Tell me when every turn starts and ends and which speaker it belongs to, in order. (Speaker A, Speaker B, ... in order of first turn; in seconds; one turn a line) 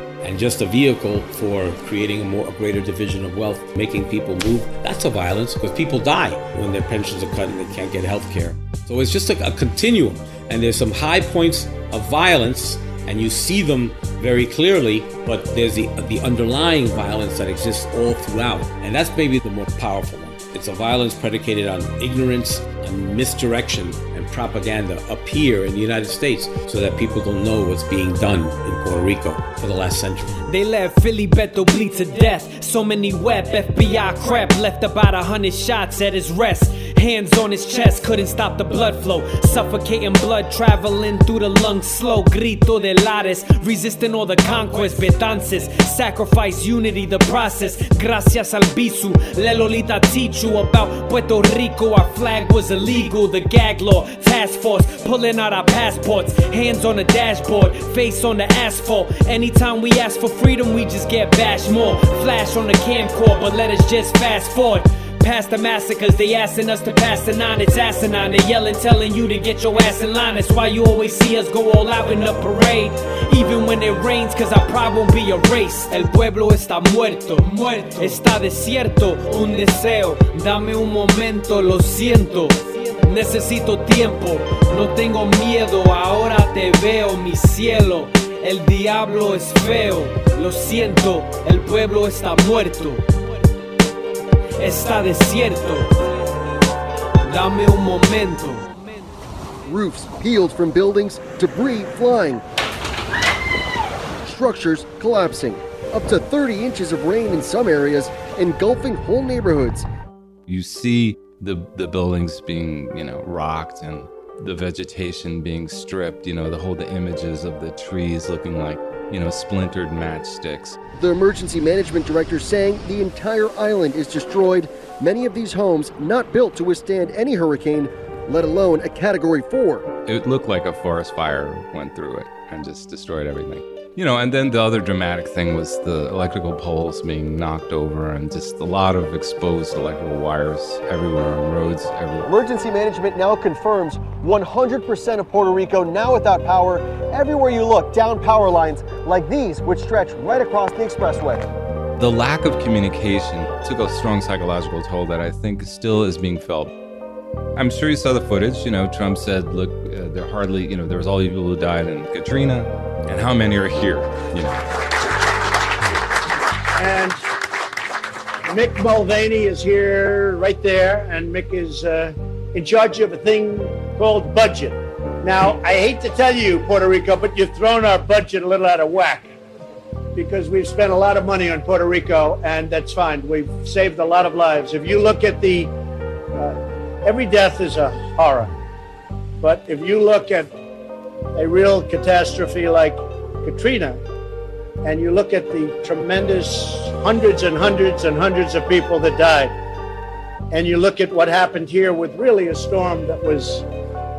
Speaker A: 0.2-30.4
Speaker B: 30.4-93.2
Speaker B: 94.6-96.2
Speaker B: 97.2-99.1
Speaker C: 99.6-102.4
Speaker C: 104.2-109.9
Speaker D: 110.5-120.8
Speaker C: 121.0-129.8
Speaker D: 130.1-142.3
Speaker C: 142.2-151.5
Speaker D: 152.0-156.7
Speaker D: 157.6-164.6
Speaker E: 166.8-167.2
Speaker E: 168.5-179.3
Speaker E: 180.1-185.7
Speaker E: 186.4-188.5
Speaker E: 189.4-190.5
Speaker E: 191.3-194.0
Speaker E: 194.8-199.5
Speaker E: 200.5-203.7